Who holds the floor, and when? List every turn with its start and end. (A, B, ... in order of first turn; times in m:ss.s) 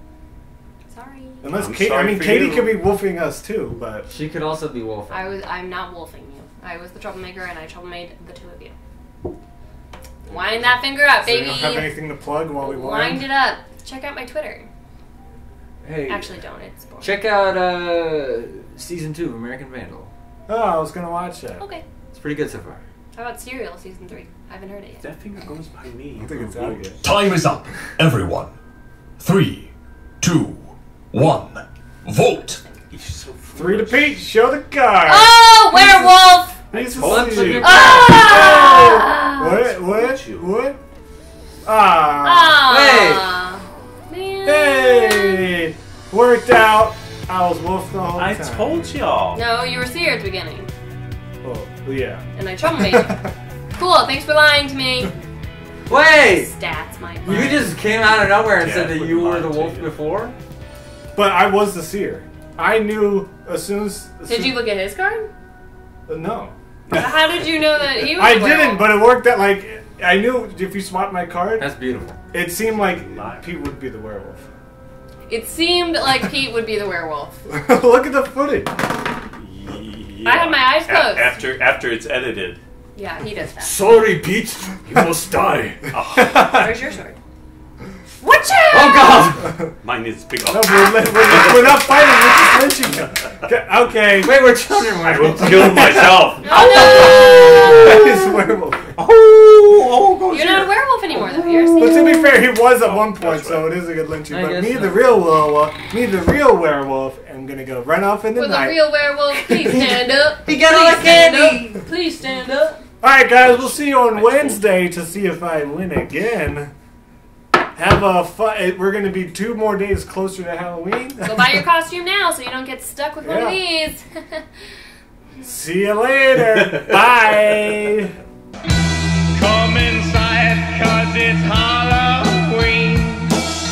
0:00.9-0:01.5 A
0:01.4-0:04.1 B
0:01.5-0:02.8 C
0:04.1-0:05.4 D
0:05.1-0:08.7 A
0:10.3-0:13.3 B
0:10.3-0:14.7 A
0:15.8-0:16.3 D
0:16.1-0:17.2 A
0:17.0-0:20.1 D
0:20.5-0:21.7 B
0:21.6-0:21.8 A
0:22.1-0:22.8 D
0:23.2-0:25.1 A
0:25.0-0:27.1 C
0:26.2-0:27.0 B
0:27.0-0:28.5 E
0:29.2-0:32.6 E
0:32.4-0:32.8 A
0:32.9-0:34.2 C
0:33.5-0:40.8 B
0:35.0-0:36.7 A
0:36.7-0:40.6 C
0:37.0-0:38.1 D
0:37.5-0:39.5 A
0:41.6-0:42.7 B
0:42.2-0:45.5 A
0:42.7-0:43.4 D
0:44.4-0:48.9 B
0:48.2-0:49.5 C
0:49.3-0:50.7 A
0:51.4-0:53.3 B
0:52.4-0:53.2 A
0:53.7-0:55.1 A
0:55.9-0:56.5 D
0:55.9-0:57.6 A
0:57.2-0:57.7 B
0:57.2-1:00.4 D
0:58.5-0:59.9 C
1:01.2-1:04.6 B
1:04.3-1:05.3 A
1:06.1-1:06.5 B
1:06.9-1:09.1 A
1:08.0-1:11.6 B
1:11.6-1:12.2 D
1:12.3-1:14.4 B
1:12.6-1:13.6 C
1:15.3-1:17.4 A
1:17.5-1:18.7 B
1:19.4-1:22.6 C
1:20.2-1:21.5 A
1:23.0-1:23.8 A
1:23.6-1:25.7 D
1:24.9-1:26.6 C
1:26.1-1:26.7 B
1:26.5-1:27.2 A
1:28.2-1:29.2 A
1:28.7-1:29.6 D
1:29.8-1:32.6 C
1:30.4-1:34.5 B
1:34.1-1:36.0 D
1:35.0-1:38.0 C
1:35.3-1:39.0 B
1:36.3-1:38.0 A
1:39.0-1:43.8 C
1:40.3-1:41.9 A
1:41.8-1:48.8 B
1:44.3-1:45.2 D
1:48.3-1:52.8 A
1:50.4-1:51.8 D
1:53.0-1:56.7 B
1:53.4-1:54.7 C
1:57.8-2:01.6 B
2:01.2-2:04.4 A
2:03.2-2:03.6 B
2:05.4-2:08.1 B
2:06.6-2:06.8 C
2:09.4-2:13.3 F